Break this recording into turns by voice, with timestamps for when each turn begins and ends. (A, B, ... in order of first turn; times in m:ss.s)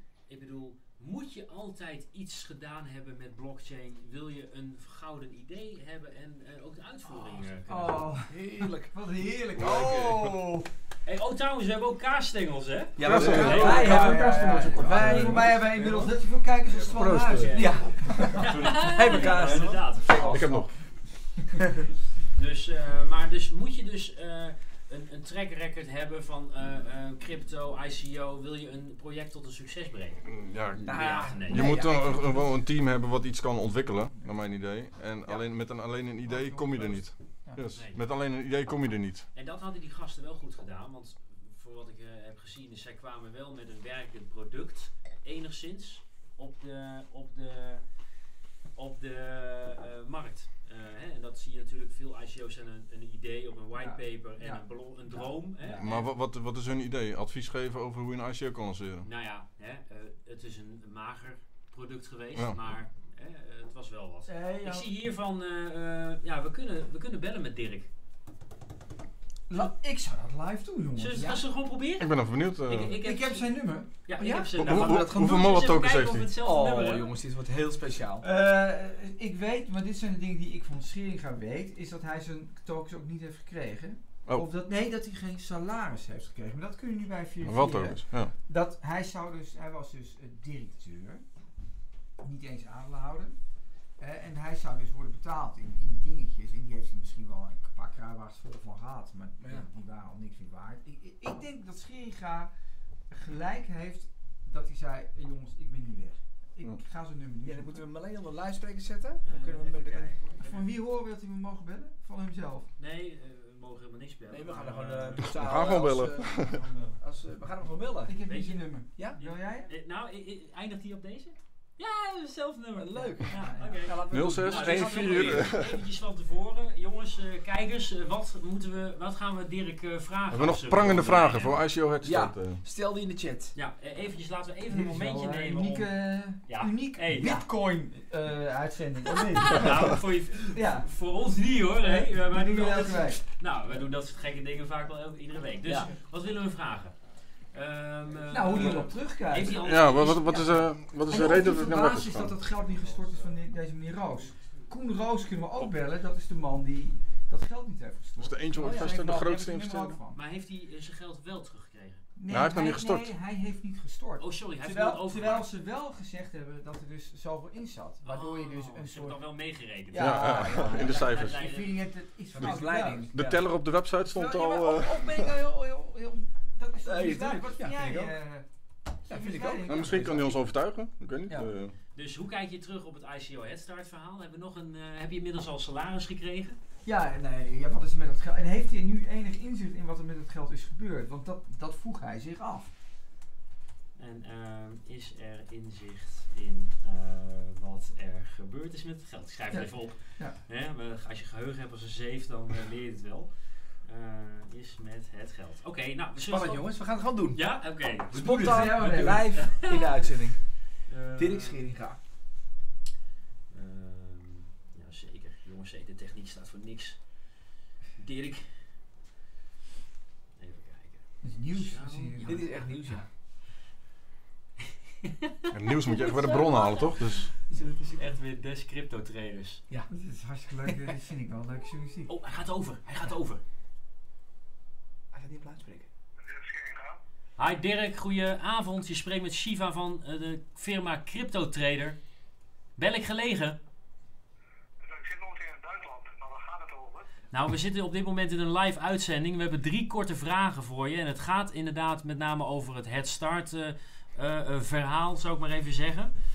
0:00.3-0:08.1 A
0:07.6-0:10.7 B
0:08.3-0:09.0 C
0:09.6-0:10.2 C
0:11.0-0:14.1 A
0:13.0-0:16.2 C
0:13.0-0:17.7 B
0:13.1-0:15.5 D
0:16.8-0:20.3 A
0:17.0-0:17.9 D
0:17.4-0:20.6 C
0:20.2-0:20.7 D
0:22.4-0:30.3 A
0:30.2-0:39.3 D
0:30.8-0:31.6 A
0:30.8-0:31.8 C
0:31.6-0:32.3 B
0:36.2-0:37.6 B
0:37.8-0:38.0 A
0:39.4-0:47.8 A
0:48.8-0:56.0 A
0:53.8-0:55.9 B
0:55.7-0:59.1 D
0:59.0-1:07.9 A
1:04.3-1:04.9 B
1:09.5-1:11.4 B
1:11.0-1:12.1 A
1:12.0-1:13.0 D
1:12.6-1:13.5 A
1:13.0-1:13.9 B
1:14.1-1:17.1 A
1:14.2-1:15.7 C
1:14.6-1:16.3 D
1:16.4-1:18.2 C
1:18.2-1:31.2 B
1:27.4-1:28.3 D
1:32.2-1:33.4 B
1:34.0-1:42.5 B
1:39.4-1:39.6 C
1:43.1-1:47.8 B
1:47.4-1:50.5 C
1:49.2-1:50.6 A
1:50.4-1:52.7 B
1:52.8-1:55.4 A
1:54.3-1:58.1 C
1:55.3-1:56.6 D
1:58.1-1:59.7 B
1:58.3-1:58.6 A
1:59.2-2:11.6 A
2:02.8-2:05.6 C
2:03.0-2:03.8 B
2:04.1-2:05.8 D
2:10.3-2:12.6 D
2:12.0-2:13.5 C
2:13.6-2:15.9 A
2:14.7-2:19.8 B
2:16.5-2:17.4 A
2:19.4-2:27.0 A
2:20.5-2:20.9 B
2:21.8-2:23.2 B
2:25.6-2:25.9 C
2:27.5-2:30.6 A
2:28.3-2:40.2 B
2:28.5-2:28.9 C
2:29.6-2:32.4 D
2:38.2-2:40.0 D
2:38.6-2:38.9 C
2:40.1-2:42.0 A
2:42.2-2:49.2 B
2:42.3-2:43.1 D
2:44.2-2:45.5 A
2:48.0-2:51.7 A
2:49.9-2:53.1 B
2:50.0-2:51.4 D
2:52.3-2:53.4 C
2:52.4-2:55.3 D
2:54.1-2:58.4 B
2:56.8-2:58.1 C
2:59.0-3:00.4 B
2:59.1-3:00.3 C
2:59.6-3:01.8 D
3:02.0-3:06.6 A
3:06.8-3:12.7 B
3:14.0-3:26.7 A
3:19.5-3:20.4 B
3:26.2-3:27.4 C
3:27.3-3:28.8 A
3:28.1-3:30.4 C
3:28.1-3:29.4 B
3:29.3-3:30.1 A
3:30.9-3:31.7 A
3:31.2-3:32.0 C
3:33.5-3:37.0 A
3:38.0-3:38.5 A
3:40.4-3:42.8 A
3:41.2-3:42.4 B
3:42.2-3:43.1 C
3:45.0-3:47.1 A
3:45.5-3:47.3 D
3:47.5-3:48.0 C
3:48.0-3:49.6 A
3:49.9-3:52.1 B
3:52.1-3:53.4 A
3:55.1-3:55.9 C
3:56.2-3:57.0 E
3:57.4-4:02.0 A
4:02.8-4:03.6 A
4:04.8-4:07.1 E
4:07.3-4:16.1 A